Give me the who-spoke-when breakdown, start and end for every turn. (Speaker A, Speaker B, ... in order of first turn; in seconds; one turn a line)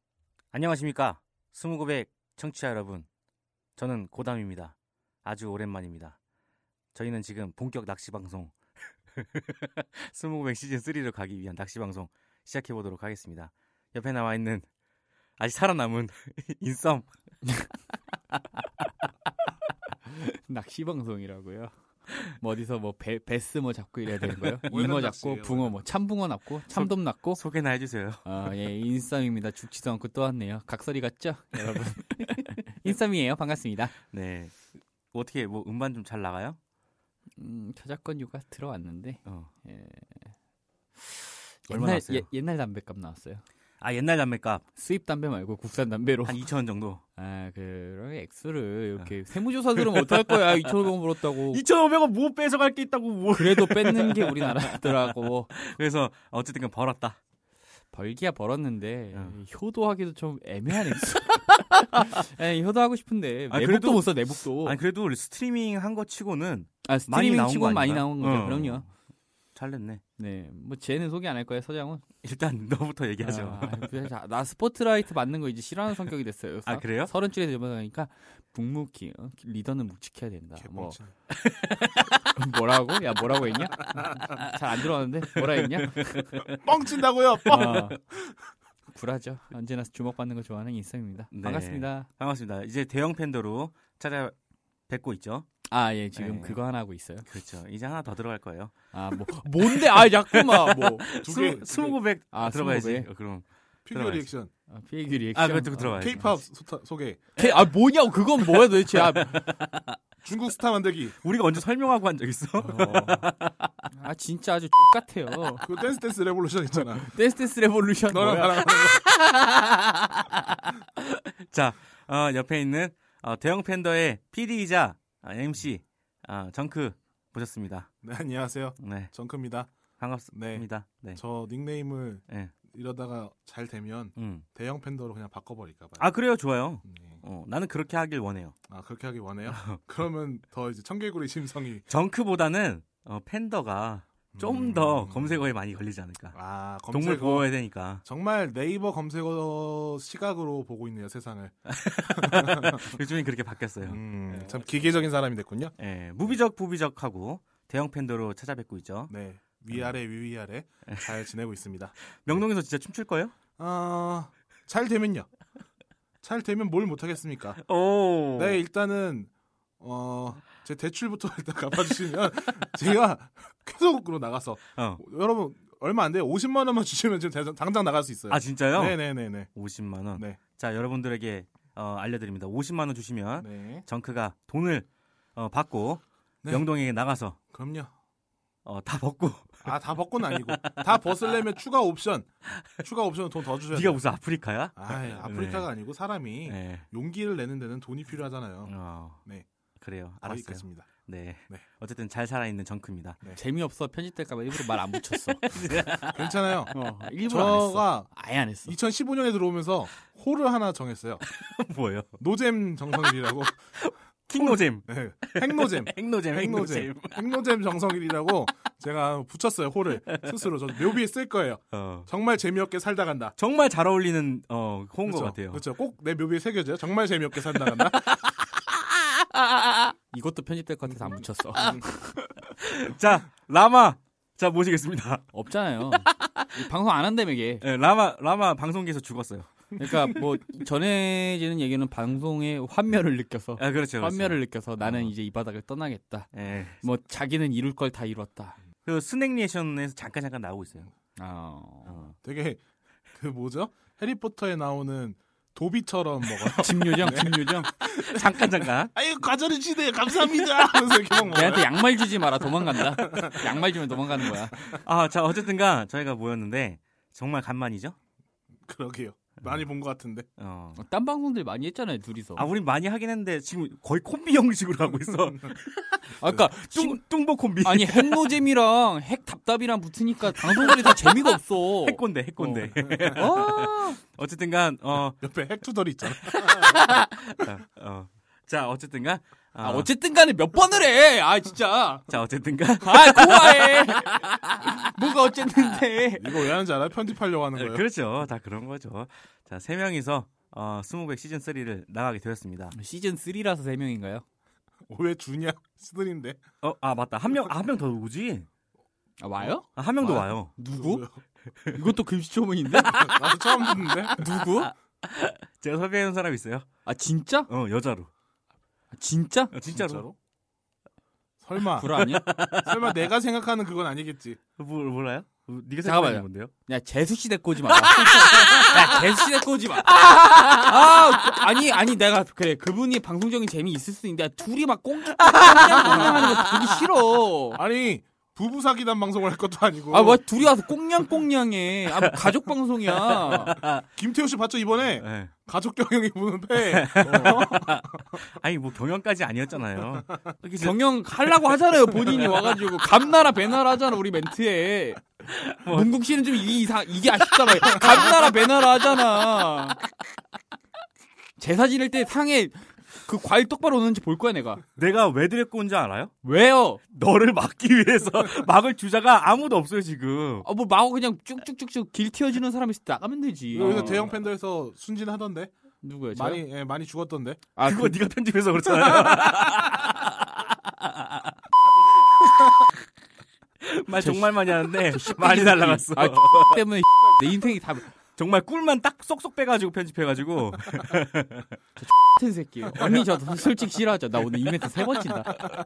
Speaker A: 0.5-3.1
Speaker A: 3.8-6.2
Speaker A: 6.9-8.6
Speaker A: 9.1-14.7
Speaker A: 15.4-17.1
Speaker B: 17.4-17.7
Speaker B: 20.1-21.7
Speaker B: 22.2-27.4
Speaker A: 24.3-24.6
Speaker C: 24.7-25.8
Speaker A: 26.7-28.2
Speaker B: 28.2-33.9
Speaker A: 34.1-36.6
Speaker B: 37.4-40.3
Speaker B: 41.0-43.4
Speaker A: 41.7-42.3
Speaker A: 43.8-44.6
Speaker B: 44.8-46.4
Speaker A: 46.3-47.0
Speaker B: 47.2-51.6
Speaker A: 49.8-57.2
Speaker B: 53.3-55.5
Speaker B: 57.9-64.8
Speaker A: 63.5-68.9
Speaker B: 66.8-68.9
Speaker A: 69.5-70.0
Speaker B: 70.2-72.0
Speaker A: 72.2-73.9
Speaker B: 73.2-81.0
Speaker A: 76.7-77.1
Speaker C: 80.6-81.1
Speaker A: 81.3-82.4
Speaker B: 82.3-86.3
Speaker A: 85.3-86.6
Speaker C: 86.5-88.3
Speaker A: 87.4-88.0
Speaker B: 87.5-88.0
Speaker B: 88.9-92.1
Speaker A: 91.3-94.3
Speaker A: 94.9-95.5
Speaker B: 95.7-97.3
Speaker A: 96.2-96.6
Speaker A: 97.3-98.7
Speaker B: 98.9-101.1
Speaker A: 99.6-104.3
Speaker C: 101.2-102.0
Speaker B: 102.3-103.1
Speaker C: 103.9-104.5
Speaker B: 104.7-106.3
Speaker A: 105.3-106.3
Speaker C: 106.0-107.3
Speaker B: 107.4-109.5
Speaker A: 108.6-109.9
Speaker C: 110.2-111.2
Speaker A: 111.2-113.7
Speaker B: 112.6-113.3
Speaker B: 113.9-115.7
Speaker C: 115.6-117.1
Speaker B: 117.0-118.7
Speaker C: 118.1-119.0
Speaker A: 119.0-127.9
Speaker C: 128.0-129.7
Speaker A: 128.8-129.1
Speaker A: 130.0-131.2
Speaker C: 130.3-136.1
Speaker A: 134.2-134.4
Speaker A: 136.0-138.6
Speaker C: 136.8-137.2
Speaker C: 138.7-141.8
Speaker A: 139.5-139.8
Speaker A: 141.9-146.3
Speaker C: 144.3-145.4
Speaker C: 146.3-147.5
Speaker A: 146.9-148.0
Speaker C: 148.0-153.0
Speaker A: 151.7-154.6
Speaker C: 153.8-155.8
Speaker A: 155.8-159.1
Speaker C: 159.1-162.1
Speaker A: 162.2-163.3
Speaker C: 163.6-165.3
Speaker C: 166.2-167.6
Speaker A: 167.6-168.6
Speaker C: 168.3-179.5
Speaker A: 174.8-175.0
Speaker A: 178.3-179.0
Speaker A: 179.6-187.4
Speaker C: 183.4-183.8
Speaker C: 187.5-187.9
Speaker A: 188.7-189.7
Speaker C: 189.6-194.0
Speaker A: 190.3-190.8
Speaker A: 193.7-195.7
Speaker C: 194.8-198.7
Speaker A: 196.5-196.9
Speaker A: 198.7-199.2
Speaker A: 199.8-203.2
Speaker C: 200.2-200.9
Speaker B: 203.3-205.4
Speaker A: 205.4-206.3
Speaker C: 206.0-208.1
Speaker B: 206.7-208.8
Speaker C: 208.7-211.2
Speaker A: 211.3-212.2
Speaker C: 212.2-213.7
Speaker A: 213.8-217.2
Speaker C: 214.3-223.3
Speaker A: 221.7-222.1
Speaker A: 223.4-225.6
Speaker C: 225.1-228.2
Speaker A: 227.8-229.9
Speaker B: 230.1-232.2
Speaker A: 232.4-235.3
Speaker B: 235.3-237.6
Speaker A: 235.9-236.5
Speaker A: 237.6-239.6
Speaker B: 239.8-248.6
Speaker A: 243.6-245.1
Speaker A: 246.3-246.8
Speaker A: 248.9-250.9
Speaker B: 251.2-252.1
Speaker C: 252.2-252.6
Speaker C: 253.1-261.7
Speaker B: 256.6-257.7
Speaker A: 257.9-258.9
Speaker B: 261.3-264.7
Speaker C: 262.7-263.6
Speaker C: 264.2-264.8
Speaker A: 264.7-268.0
Speaker C: 268.7-270.3
Speaker A: 270.4-270.8
Speaker B: 270.8-272.5
Speaker A: 272.4-278.3
Speaker B: 276.2-277.0
Speaker B: 277.6-284.0
Speaker A: 280.6-281.1
Speaker A: 281.8-285.2
Speaker C: 285.2-286.8
Speaker A: 286.1-289.9
Speaker B: 289.6-292.1
Speaker A: 292.1-294.7
Speaker B: 292.8-296.5
Speaker C: 296.2-297.9
Speaker A: 297.6-302.7
Speaker B: 302.7-304.2
Speaker C: 304.9-306.4
Speaker A: 306.6-308.5
Speaker B: 309.2-311.0
Speaker C: 309.4-311.2
Speaker A: 309.8-310.5
Speaker B: 311.7-313.1
Speaker C: 312.9-314.2
Speaker A: 312.9-313.2
Speaker B: 314.1-314.7
Speaker A: 314.4-316.7
Speaker B: 316.9-317.5
Speaker A: 317.5-318.1
Speaker B: 318.9-319.5
Speaker A: 319.5-320.1
Speaker C: 319.7-320.1
Speaker C: 321.4-324.4
Speaker B: 321.7-322.3
Speaker A: 322.0-323.0
Speaker A: 324.6-326.5
Speaker B: 325.8-337.6
Speaker A: 327.7-329.1
Speaker A: 330.0-330.7
Speaker A: 335.2-336.3
Speaker C: 337.6-340.2
Speaker B: 339.9-343.6
Speaker A: 342.0-342.3
Speaker A: 343.1-343.9
Speaker C: 343.9-348.0
Speaker A: 345.0-345.3
Speaker A: 346.6-350.8
Speaker B: 350.6-355.1
Speaker A: 352.0-352.3
Speaker A: 355.3-355.9
Speaker B: 355.7-359.8
Speaker A: 357.4-358.2
Speaker B: 361.4-364.6
Speaker A: 364.8-366.1
Speaker B: 366.2-366.8
Speaker A: 366.9-370.5
Speaker B: 370.4-374.1
Speaker C: 373.5-375.5
Speaker A: 373.6-374.1
Speaker B: 375.8-376.4
Speaker C: 376.1-377.4
Speaker B: 377.6-378.0
Speaker A: 377.6-381.4
Speaker C: 378.9-379.3
Speaker A: 382.1-382.8
Speaker A: 383.6-386.7
Speaker B: 384.0-387.9
Speaker A: 388.2-391.6
Speaker B: 391.8-395.6
Speaker A: 392.8-393.0